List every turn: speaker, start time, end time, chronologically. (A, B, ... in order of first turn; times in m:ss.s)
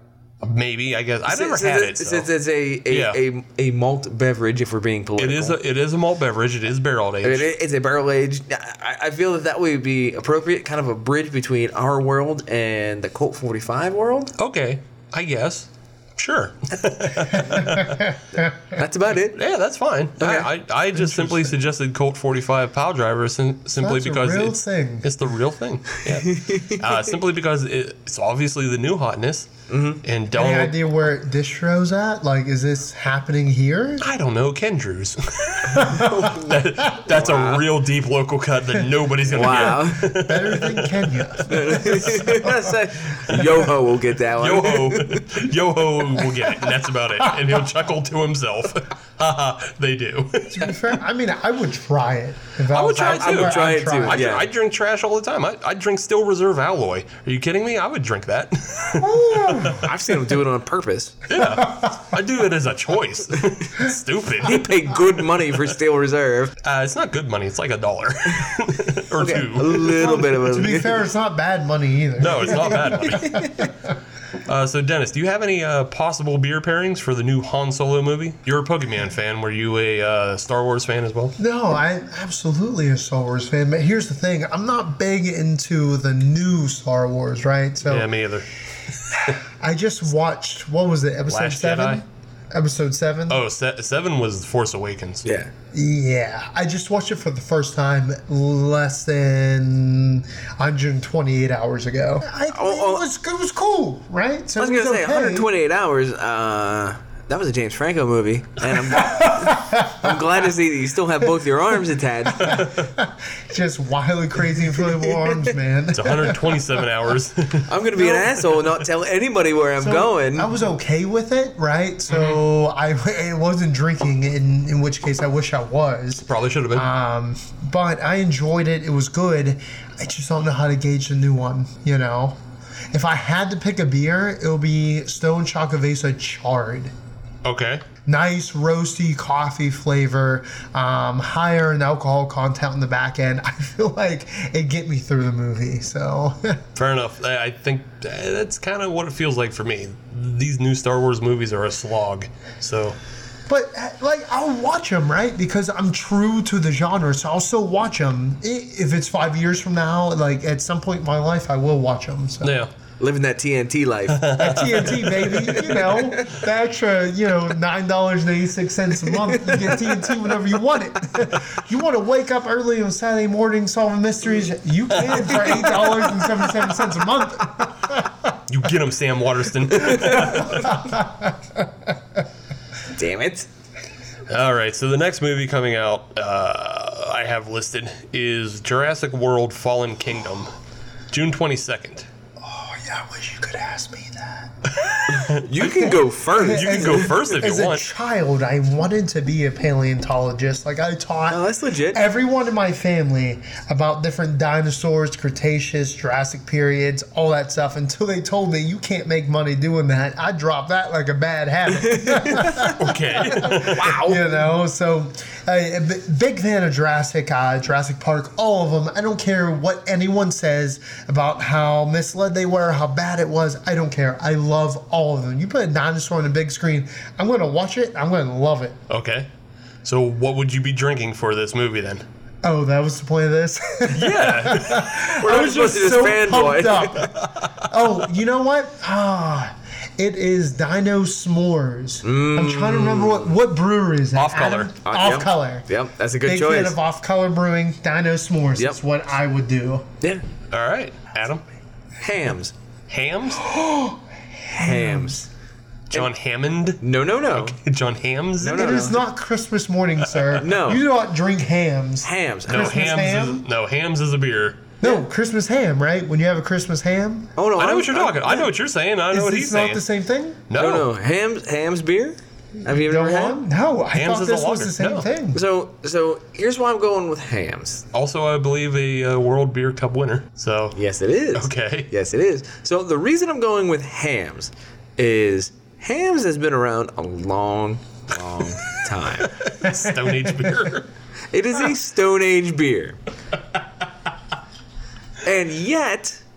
0:00.4-0:02.3 A
0:01.3-0:05.6 B
0:02.9-0:03.2 A
0:05.2-0:07.5 A
0:07.2-0:14.3 B
0:14.4-0:18.1 A
0:17.6-0:18.1 C
0:18.7-0:19.4 B
0:19.3-0:30.7 A
0:20.2-0:20.5 B
0:20.9-0:21.5 C
0:23.8-0:25.1 C
0:26.2-0:26.8 B
0:29.7-0:30.0 B
0:30.3-0:34.0 C
0:34.0-0:41.7 A
0:35.7-0:36.3 C
0:35.9-0:36.5 B
0:37.0-0:37.6 B
0:39.3-0:40.1 B
0:39.4-0:42.8 C
0:41.5-0:45.3 B
0:43.3-0:43.7 A
0:44.4-0:50.8 A
0:50.5-0:54.3 C
0:52.7-0:59.8 A
0:53.0-0:54.4 B
0:59.0-0:59.9 C
0:59.8-1:01.2 B
1:01.3-1:05.0 A
1:01.4-1:02.0 C
1:04.4-1:06.5 B
1:06.6-1:10.2 A
1:09.2-1:11.0 B
1:10.0-1:13.7 C
1:12.2-1:13.7 A
1:13.0-1:13.5 B
1:14.4-1:21.3 A
1:21.4-1:28.1 C
1:27.8-1:28.5 A
1:29.1-1:29.3 A
1:29.1-1:33.4 C
1:31.3-1:32.0 A
1:33.3-1:35.3 A
1:35.2-1:35.5 B
1:35.7-1:45.5 C
1:42.5-1:43.0 B
1:44.6-1:52.6 B
1:49.0-1:50.1 C
1:52.4-1:56.6 C
1:52.5-1:52.8 A
1:55.9-1:58.2 A
1:57.7-2:00.5 B
1:59.8-2:12.4 C
2:02.1-2:02.4 A
2:06.2-2:06.9 A
2:12.9-2:16.9 C
2:17.4-2:17.8 A
2:18.0-2:26.6 C
2:26.7-2:33.0 A
2:33.5-2:42.6 C
2:42.4-2:42.7 A
2:43.0-2:44.2 B
2:44.1-2:45.9 A
2:44.4-2:58.3 C
2:45.9-2:46.3 B
2:58.5-3:00.8 A
3:00.0-3:01.6 C
3:02.9-3:03.5 B
3:04.3-3:10.5 A
3:11.1-3:12.1 A
3:12.4-3:14.6 C
3:14.7-3:17.8 A
3:15.1-3:17.1 B
3:15.8-3:48.8 C
3:21.3-3:22.0 B
3:31.8-3:32.8 B
3:32.6-3:34.0 A
3:33.4-3:34.2 B
3:48.9-3:49.3 A
3:49.8-3:52.0 A
3:52.4-4:05.6 C
3:53.9-3:55.5 A
3:55.1-3:57.1 B
4:02.0-4:03.3 B
4:04.1-4:04.7 A
4:04.8-4:06.8 B
4:06.2-4:09.9 C
4:10.5-4:11.4 A
4:12.0-4:12.5 B
4:12.9-4:13.5 A
4:13.4-4:15.2 C
4:14.5-4:15.2 B
4:15.9-4:18.9 A
4:16.8-4:17.6 B
4:18.4-4:19.0 B
4:18.5-4:23.4 C
4:20.1-4:20.4 A
4:20.4-4:20.8 B
4:22.0-4:22.9 B
4:22.5-4:24.6 A
4:24.8-4:27.3 C
4:27.4-4:28.4 B
4:27.6-4:29.8 A
4:29.1-4:30.4 C
4:30.5-4:30.9 A
4:30.5-4:33.4 B
4:32.7-4:35.4 C
4:33.9-4:35.1 A
4:35.3-4:37.8 B
4:37.9-4:40.8 A
4:40.7-4:49.4 B
4:41.3-4:41.9 A
4:49.2-4:50.9 A
4:51.3-4:53.0 B
4:55.2-4:56.2 B